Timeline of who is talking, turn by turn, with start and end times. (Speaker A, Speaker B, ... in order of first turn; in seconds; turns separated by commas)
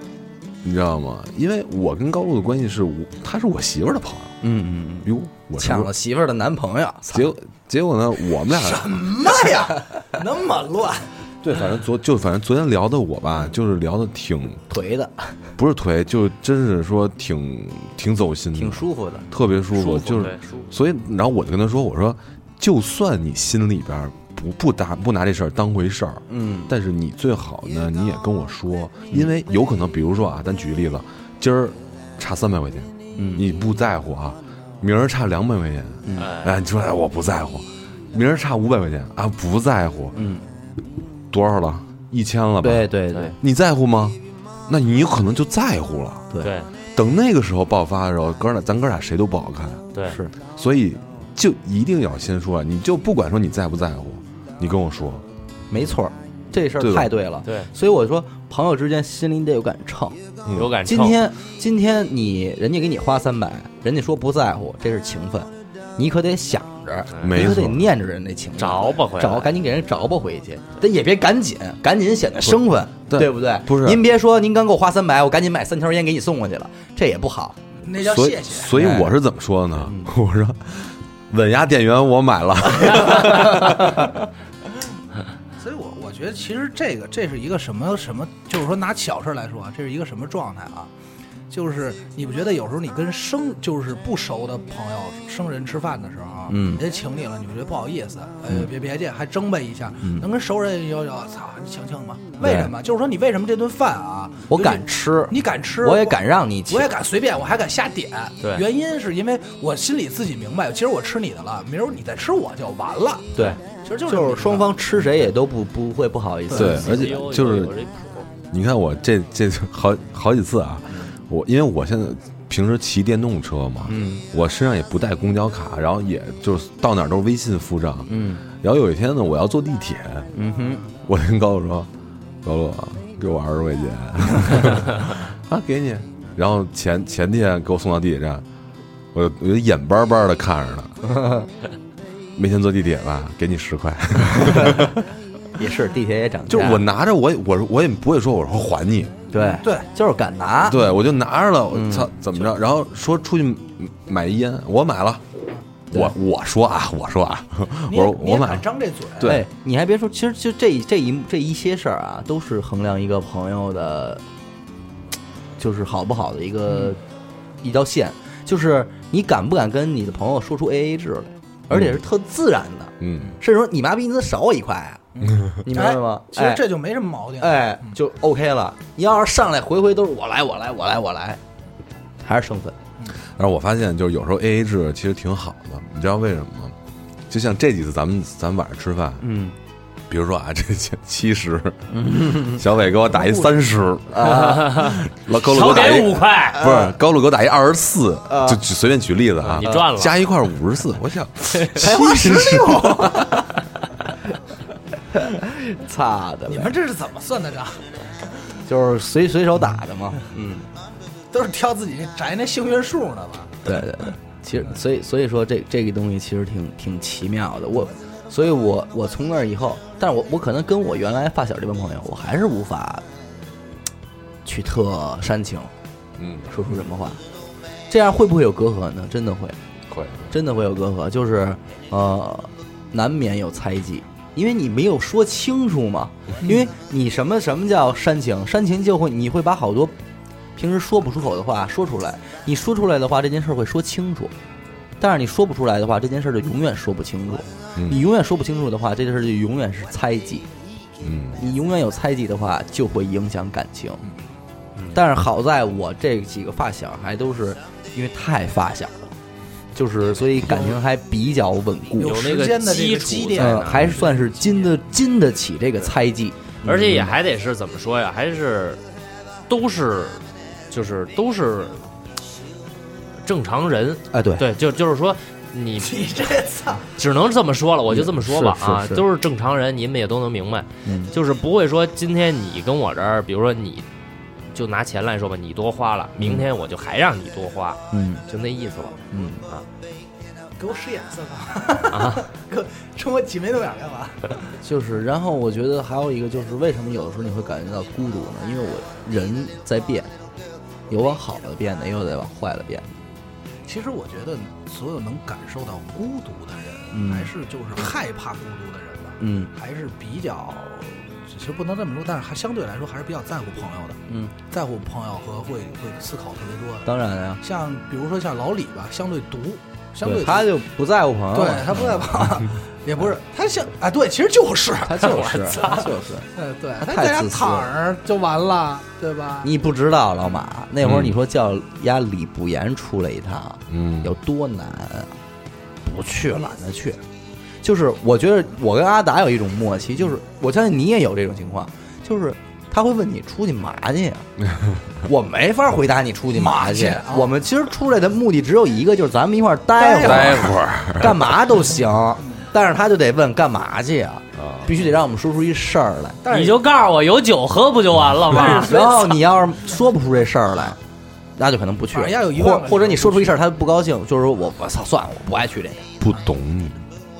Speaker A: 0.6-4.4, Speaker B: 4.4-7.3, Speaker A: 5.0-5.9, Speaker A: 7.1-9.1, Speaker C: 8.5-11.1, Speaker A: 11.4-14.7, Speaker B: 14.7-15.4, Speaker A: 15.6-40.1, Speaker B: 18.6-19.3, Speaker D: 19.7-20.7, Speaker B: 26.3-26.7, Speaker B: 33.1-33.4, Speaker B: 36.0-36.3, Speaker D: 36.2-36.5, Speaker B: 40.1-40.4, Speaker A: 41.3-46.3, Speaker B: 42.6-43.4, Speaker D: 46.4-46.7, Speaker A: 46.9-49.9, Speaker B: 50.0-50.3, Speaker A: 50.5-55.2, Speaker B: 55.7-60.2, Speaker A: 56.8-57.1, Speaker A: 60.4-60.7, Speaker D: 60.5-61.2, Speaker B: 60.8-77.6, Speaker A: 67.2-67.9, Speaker D: 68.6-69.5, Speaker A: 73.1-74.0, Speaker C: 77.8-78.8, Speaker A: 78.0-84.1, Speaker B: 78.8-79.1, Speaker B: 79.8-80.1, Speaker C: 85.6-90.9, Speaker C: 91.5-114.8, Speaker B: 96.5-96.8, Speaker B: 102.4-102.7, Speaker B: 104.5-106.9, Speaker B: 113.3-117.1, Speaker C: 116.5-116.8, Speaker A: 116.5-117.8, Speaker D: 116.7-118.3, Speaker A: 118.5-130.3, Speaker B: 123.9-124.2, Speaker B: 128.1-128.4, Speaker B: 130.3-130.8, Speaker A: 131.0-131.9, Speaker A: 132.4-138.4, Speaker A: 139.1-141.0, Speaker B: 141.0-141.5, Speaker A: 142.3-145.0, Speaker B: 144.3-144.9, Speaker B: 145.6-146.8, Speaker A: 146.5-149.2, Speaker B: 149.3-150.8, Speaker C: 149.6-149.9, Speaker A: 150.6-155.2, Speaker B: 151.7-152.1, Speaker A: 155.9-158.7, Speaker C: 157.9-159.4, Speaker A: 159.2-159.4, Speaker B: 159.2-164.2, Speaker B: 165.6-167.0, Speaker B: 167.6-175.0, Speaker A: 171.7-172.0, Speaker A: 173.0-173.4, Speaker C: 175.1-178.0, Speaker B: 175.6-176.7, Speaker B: 177.4-181.4, Speaker B: 182.2-182.8, Speaker A: 183.3-186.8, Speaker A: 187.3-189.2, Speaker B: 189.2-189.5, Speaker A: 190.1-203.3, Speaker B: 191.9-192.6, Speaker B: 194.1-194.8, Speaker D: 194.3-196.6, Speaker B: 196.6-196.9, Speaker B: 198.3-198.6, Speaker D: 199.4-200.2, Speaker D: 201.6-201.8, Speaker B: 201.8-203.5, Speaker C: 201.9-202.6, Speaker B: 205.1-206.7, Speaker C: 206.5-207.9, Speaker B: 208.7-210.7, Speaker C: 211.3-213.7, Speaker B: 213.6-223.0, Speaker B: 224.4-225.7, Speaker A: 226.2-226.5, Speaker B: 226.5-227.2, Speaker B: 227.9-229.6, Speaker A: 229.9-230.3, Speaker B: 230.3-239.9, Speaker C: 236.4-236.7, Speaker B: 240.6-244.3, Speaker B: 245.0-250.4, Speaker A: 251.0-251.4, Speaker B: 251.4-254.0, Speaker B: 254.9-259.1, Speaker B: 259.7-262.2, Speaker C: 262.0-264.8, Speaker D: 262.0-264.0, Speaker B: 263.4-267.1, Speaker D: 266.6-268.8, Speaker D: 269.5-271.8, Speaker D: 273.2-276.1, Speaker B: 274.1-274.4, Speaker C: 275.8-276.9, Speaker D: 276.9-283.8, Speaker B: 277.9-279.0, Speaker B: 280.8-281.1, Speaker D: 284.5-289.6, Speaker B: 286.2-286.4, Speaker B: 287.9-288.2, Speaker B: 289.1-289.4, Speaker C: 290.6-294.5, Speaker D: 291.9-292.2, Speaker B: 294.6-300.1, Speaker B: 300.9-302.9, Speaker C: 303.6-320.5, Speaker B: 306.9-307.3, Speaker B: 309.2-309.5, Speaker B: 314.1-314.3, Speaker B: 316.8-317.4, Speaker B: 320.0-322.0, Speaker C: 321.3-329.5, Speaker B: 324.8-326.3, Speaker B: 326.8-327.7, Speaker B: 329.4-335.1, Speaker A: 330.8-331.1, Speaker A: 333.7-334.1, Speaker B: 335.8-337.0, Speaker B: 337.6-344.3, Speaker B: 345.0-356.2, Speaker C: 346.3-347.3, Speaker C: 349.8-350.5, Speaker A: 350.0-351.3, Speaker A: 354.4-354.7, Speaker C: 356.2-356.6, Speaker D: 356.3-358.9, Speaker C: 358.3-359.1, Speaker B: 358.3-360.8, Speaker B: 361.4-365.9, Speaker C: 361.9-363.4, Speaker A: 366.0-366.8